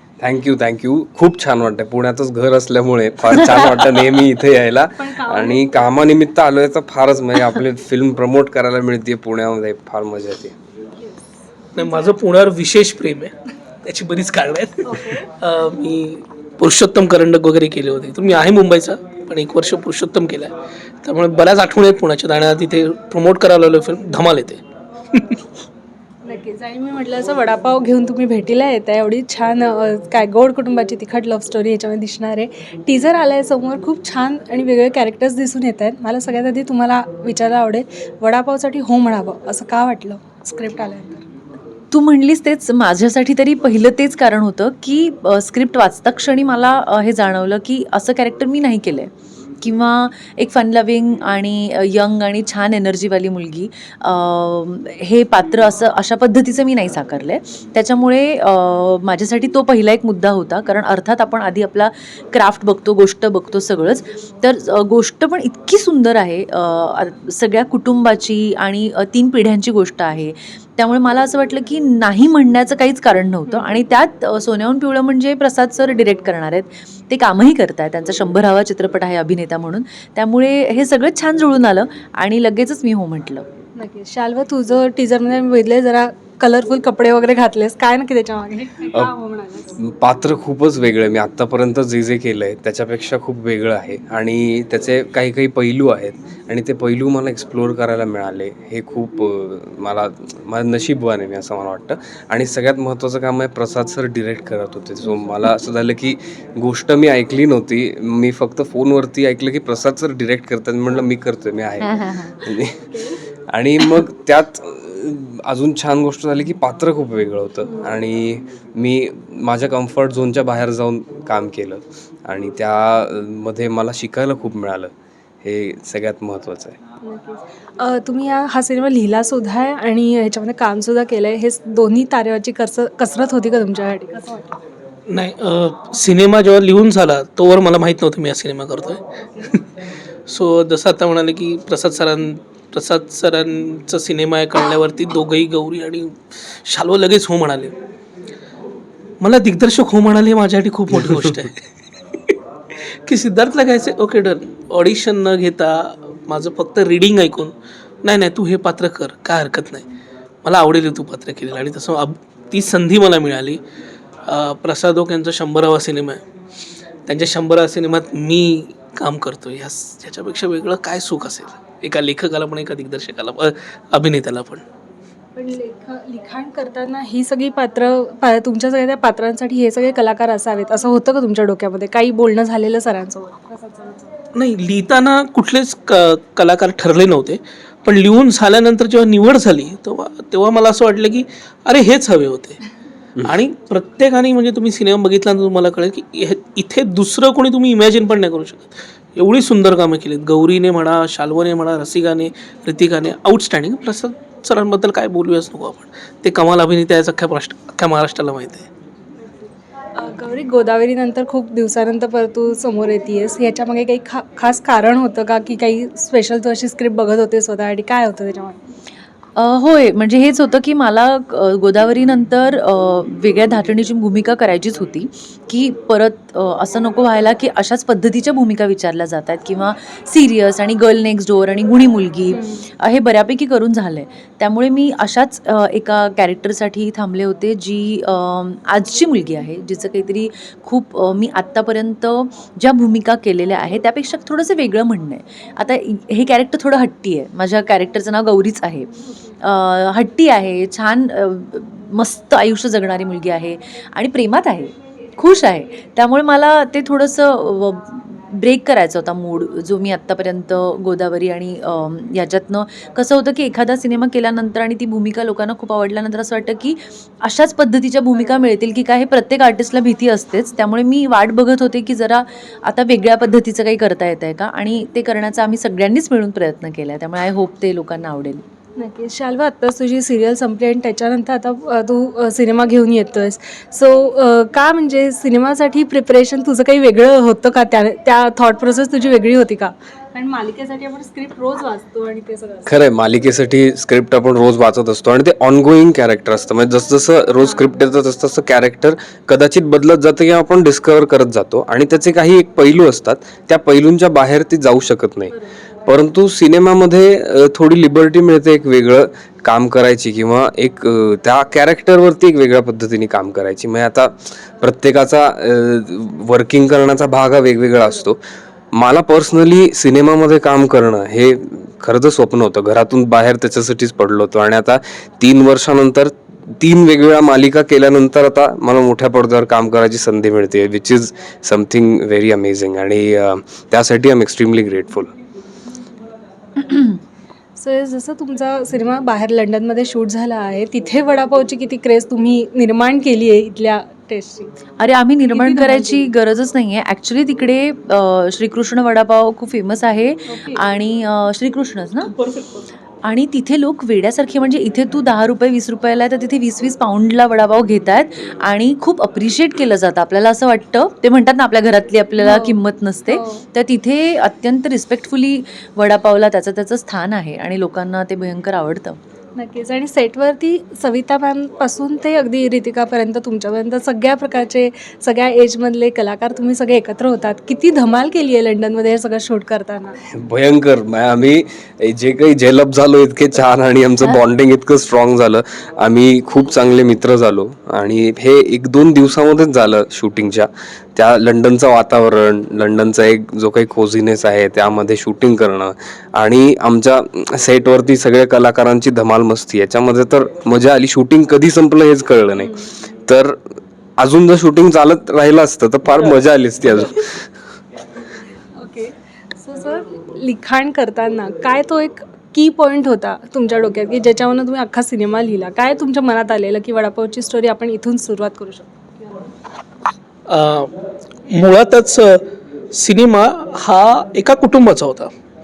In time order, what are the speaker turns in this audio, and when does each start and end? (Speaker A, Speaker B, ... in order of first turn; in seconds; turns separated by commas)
Speaker A: 0.2-10.5, Speaker B: 5.0-5.6, Speaker B: 11.0-12.2, Speaker C: 11.7-20.5, Speaker B: 14.8-15.3, Speaker C: 21.0-24.6, Speaker C: 25.1-25.4, Speaker B: 26.2-41.3, Speaker D: 41.9-49.1, Speaker D: 49.6-83.5, Speaker B: 73.5-73.7, Speaker B: 83.8-89.8, Speaker A: 89.8-112.9, Speaker D: 111.8-112.5, Speaker B: 112.9-113.2, Speaker A: 113.5-124.9, Speaker B: 117.7-117.9, Speaker A: 125.4-126.8, Speaker B: 127.0-134.6, Speaker C: 135.1-147.7, Speaker C: 149.2-152.4, Speaker C: 153.0-159.8, Speaker C: 160.4-163.6, Speaker C: 164.3-166.2, Speaker C: 167.1-174.6, Speaker B: 175.3-184.2, Speaker C: 184.3-192.6, Speaker C: 193.2-208.7, Speaker B: 209.9-218.6, Speaker D: 219.4-248.9, Speaker B: 232.3-232.7, Speaker D: 249.4-278.4, Speaker B: 278.8-292.7, Speaker A: 292.6-305.3, Speaker A: 305.9-318.2, Speaker A: 318.7-335.1, Speaker D: 336.6-337.0, Speaker B: 337.6-344.6, Speaker D: 344.8-352.1, Speaker B: 345.3-346.1, Speaker B: 350.3-350.6, Speaker C: 352.0-352.7, Speaker D: 353.0-369.0, Speaker B: 362.2-362.6, Speaker B: 363.1-363.4, Speaker B: 369.4-380.0, Speaker A: 380.1-403.4, Speaker B: 402.4-402.7, Speaker A: 404.0-407.3, Speaker B: 408.5-419.1, Speaker C: 420.3-420.7, Speaker C: 421.3-425.1